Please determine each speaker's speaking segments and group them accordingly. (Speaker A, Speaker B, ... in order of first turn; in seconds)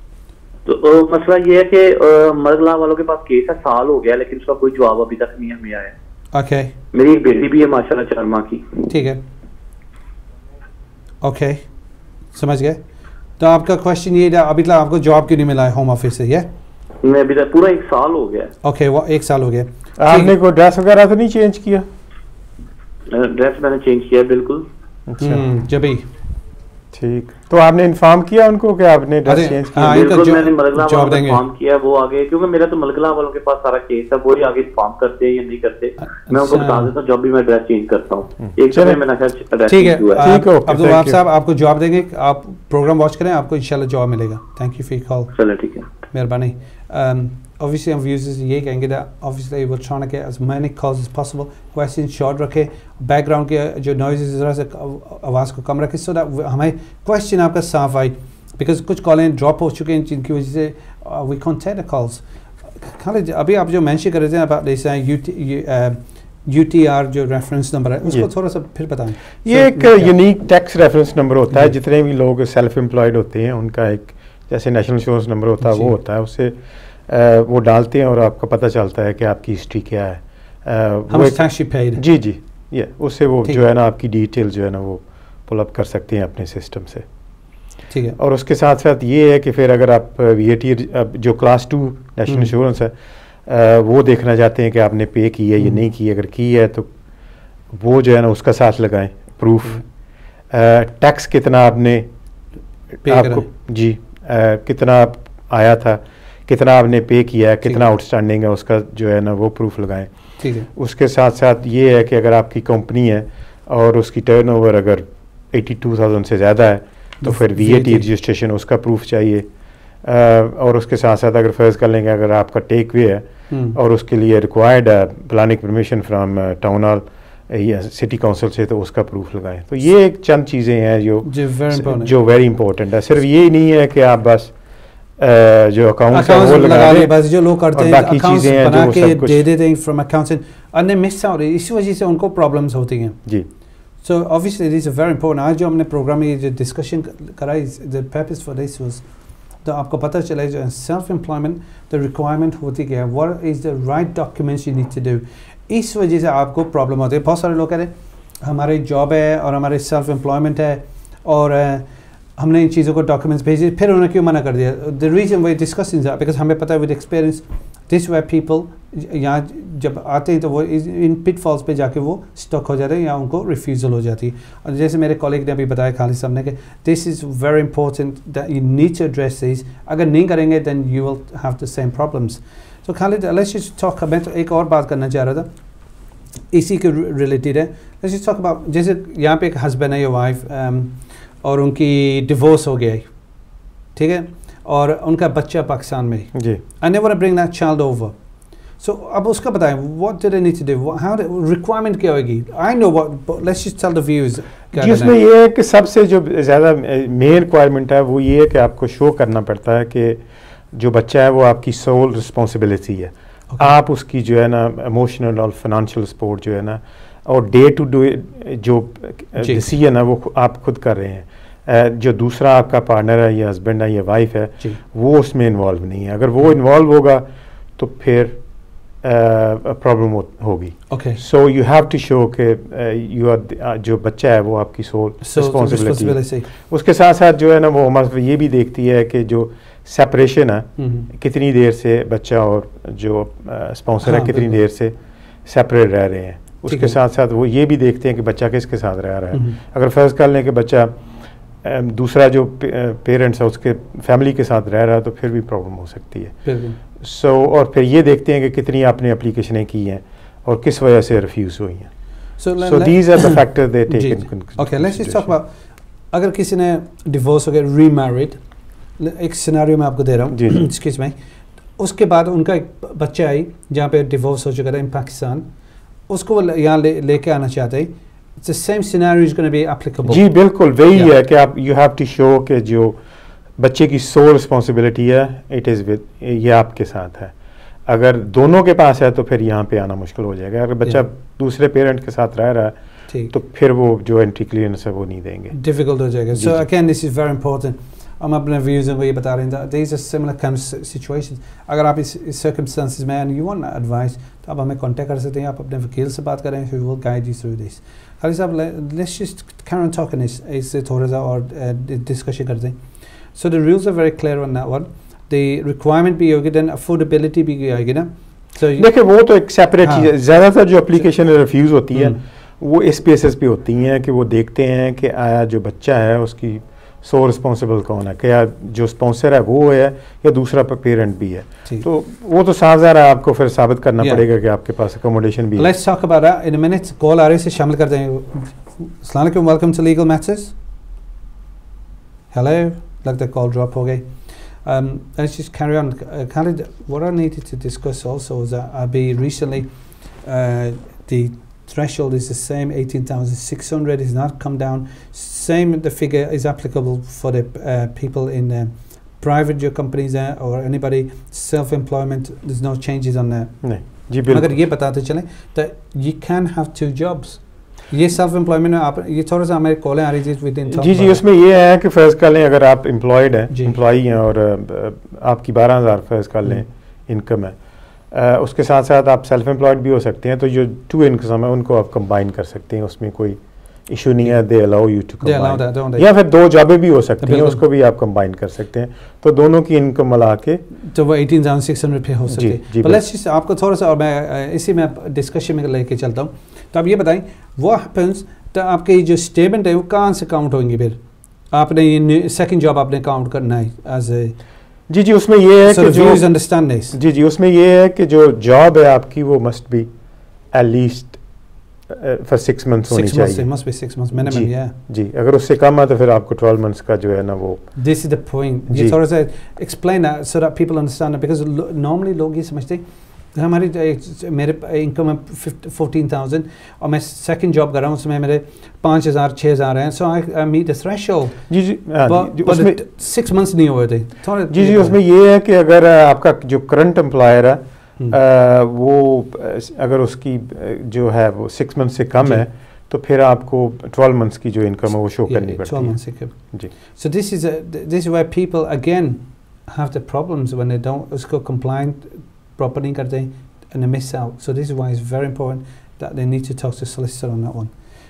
Speaker A: 0.7-6.0, 6.9-8.9, 17.0-18.5, 23.1-24.6, 29.8-40.3, 45.3-45.9
Speaker B: 6.3-6.7, 8.9-9.2, 11.2-11.6, 12.3-12.8, 13.4-16.5, 18.6-20.4, 25.2-26.1, 29.3-31.4, 36.0-36.9, 39.7-45.3, 46.1-62.2, 62.8-70.1, 75.6-75.9, 81.1-82.0, 87.9-88.2, 103.0-103.5, 110.4-110.7, 117.2-118.0, 123.5-123.8, 131.2-132.1, 136.1-143.2, 144.0-149.1, 149.7-185.5, 186.5-193.1, 194.0-198.2, 198.8-205.2, 219.4-219.7, 230.9-231.2, 235.2-236.5, 240.8-241.1, 244.0-244.6, 246.7-247.0, 256.4-256.8, 262.4-265.5, 266.1-268.4, 269.0-271.1, 271.8-275.5, 276.1-280.2, 295.5-312.8, 313.3-318.9, 319.8-320.1, 321.9-322.2, 335.6-340.5, 342.3-344.1, 344.6-349.7, 350.2-371.2, 373.5-373.8, 385.2-386.1, 387.2-387.6, 390.9-401.0, 401.5-404.4, 405.7-407.0, 412.9-414.7, 417.8-422.8, 423.3-431.5, 432.1-435.0, 445.3-457.7
Speaker C: 20.0-21.9, 25.1-25.4, 26.9-30.0, 38.4-39.0, 40.2-41.2, 68.0-68.3, 69.5-76.6, 77.1-87.1, 88.2-92.9, 93.5-96.9, 97.7-99.8, 100.5-102.1, 103.0-110.1, 110.7-119.5, 120.0-134.6, 135.2-139.4, 196.3-196.6, 204.7-227.2, 227.8-228.4, 229.0-251.0, 251.6-261.9, 262.6-265.4, 270.3-270.6, 280.1-283.0, 283.6-287.3, 287.9-292.8, 293.3-295.6, 296.4-296.6, 318.8-335.7, 363.6-364.6, 370.7-377.6, 378.1-390.6, 392.3-393.0, 404.9-406.3, 406.9-409.9, 410.5-411.2, 411.9-413.5, 414.1-417.7, 418.7-419.0, 431.5-432.8, 434.5-446.7